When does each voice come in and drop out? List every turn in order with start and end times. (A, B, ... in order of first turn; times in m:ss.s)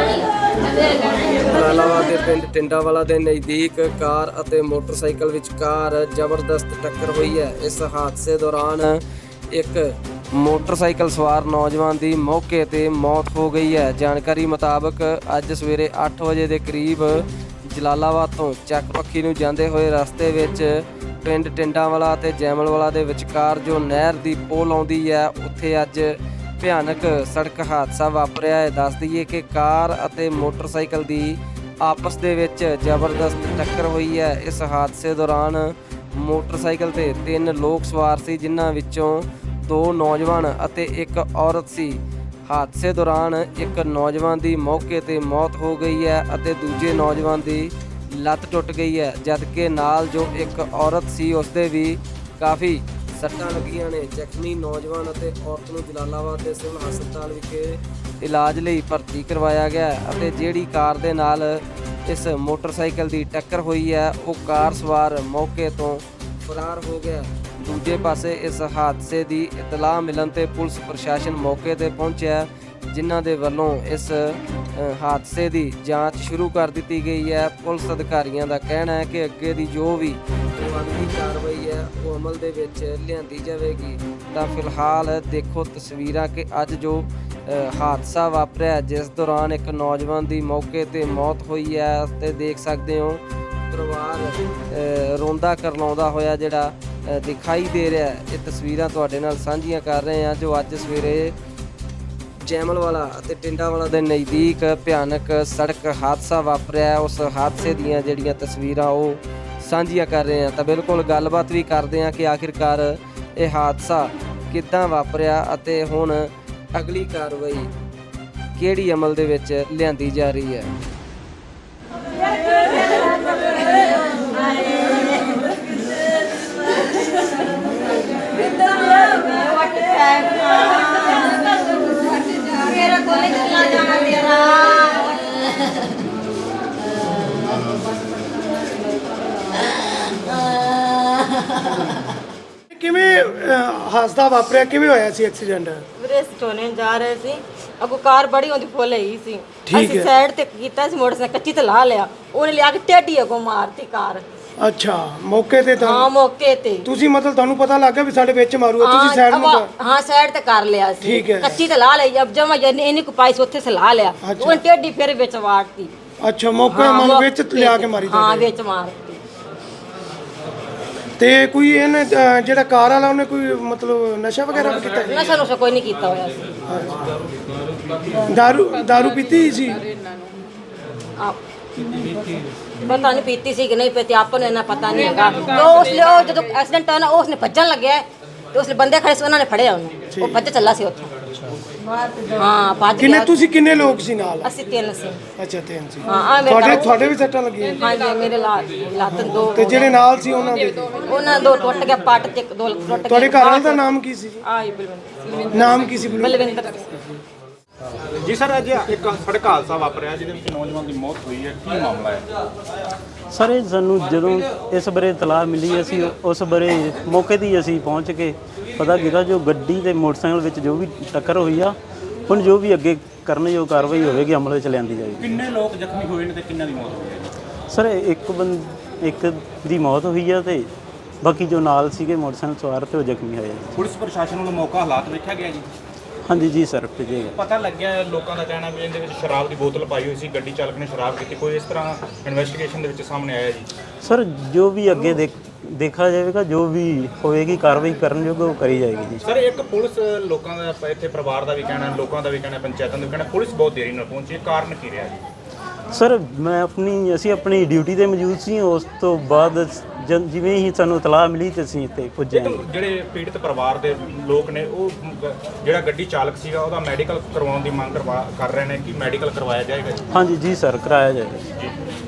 0:01.4-0:09.0 A
0:09.5-0:20.7 A
0:21.2-1:14.2 A
1:14.8-1:41.3 A
1:42.4-1:57.7 A
1:58.6-2:00.7 A
2:02.6-2:05.6 B
2:06.3-2:07.7 B
2:08.3-2:15.9 B
2:19.8-2:22.0 B
2:22.7-2:25.8 C
2:26.0-2:34.2 B
2:29.7-2:30.1 C
2:34.6-2:36.1 C
2:35.8-2:36.9 B
2:36.8-2:39.7 C
2:38.8-2:45.9 B
2:41.0-2:41.6 C
2:44.2-2:44.6 C
2:46.2-2:48.5 C
2:46.7-2:49.2 B
2:51.2-2:55.2 C
2:55.0-2:56.5 B
2:58.3-2:59.8 C
3:02.8-3:11.1 B
3:10.1-3:10.4 C
3:12.3-3:13.3 B
3:13.0-3:14.5 C
3:14.4-3:15.2 B
3:15.4-3:17.8 C
3:16.1-3:17.0 B
3:17.8-3:19.9 B
3:19.1-3:21.0 C
3:21.0-3:23.9 B
3:23.0-3:24.4 C
3:24.4-3:25.5 B
3:25.5-3:26.4 C
3:26.2-3:26.9 B
3:28.2-3:32.3 D
3:33.3-3:41.7 E
3:42.3-3:45.4 E
3:45.2-3:47.3 D
3:47.7-3:50.7 E
3:51.2-3:53.7 E
3:53.7-3:55.7 D
3:56.2-3:57.3 E
3:57.3-4:03.7 D
4:04.0-4:09.2 E
4:09.2-4:15.2 D
4:15.9-4:22.6 E
4:22.3-4:30.1 D
4:30.1-4:31.4 E